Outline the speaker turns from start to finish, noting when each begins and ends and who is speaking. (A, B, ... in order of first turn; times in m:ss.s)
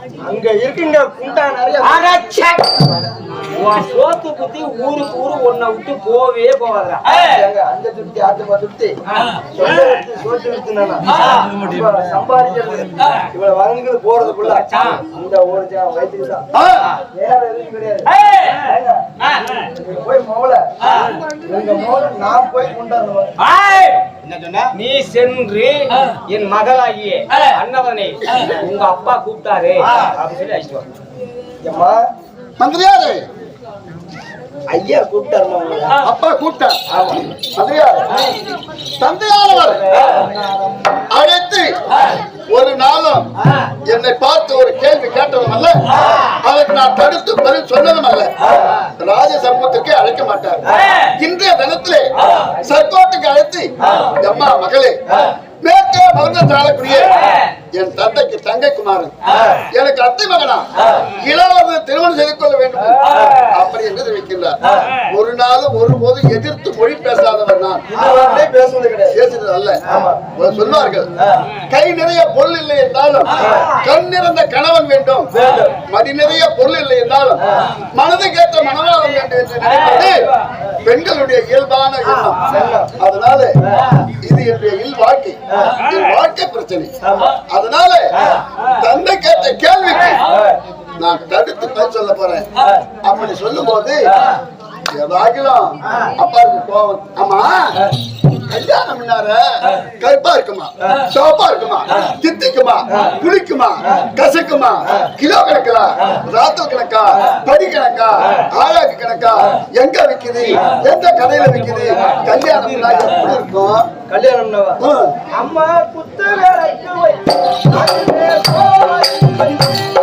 0:00.2-0:02.1 A
0:01.8-0:02.9 B
0:03.5-0:07.4 B
0:07.1-0:09.0 A
0:09.1-0:09.5 B
0:09.5-0:16.5 A
0:11.1-0:11.6 B
0:14.4-0:15.1 B
0:16.5-0:16.8 C
0:17.1-0:18.1 A
0:18.0-0:18.7 B
0:18.6-0:19.0 A
0:19.2-0:19.7 B
0:19.7-0:23.3 A
0:20.8-0:21.2 B
0:23.4-0:30.8 B
0:31.6-0:32.0 A
0:32.6-0:33.2 C
0:34.7-0:36.0 A
0:36.0-0:36.8 C
0:36.9-0:37.2 A
0:37.3-0:38.2 C
0:39.0-0:40.0 C
0:39.9-0:40.3 A
0:41.1-0:43.3 C
0:43.4-0:43.7 B
0:43.8-1:08.0 C
0:50.7-0:51.1 B
0:57.1-0:57.5 B
0:59.3-0:59.6 A
1:07.9-1:09.2 A
1:09.1-1:20.3 C
1:09.9-1:10.2 A
1:11.2-1:11.5 A
1:13.3-1:13.7 A
1:15.3-1:15.7 A
1:19.6-1:20.1 B
1:20.8-1:23.6 C
1:22.5-1:22.9 A
1:24.2-1:30.2 C
1:25.5-1:25.8 A
1:27.0-1:27.4 A
1:28.5-1:28.8 B
1:30.3-1:30.6 A
1:31.0-1:32.5 C
1:32.6-1:32.8 A
1:33.0-1:34.2 C
1:34.9-1:53.9 C
1:51.6-1:52.9 B
1:53.0-1:53.3 A
1:54.1-1:59.8 A
1:54.8-1:55.1 C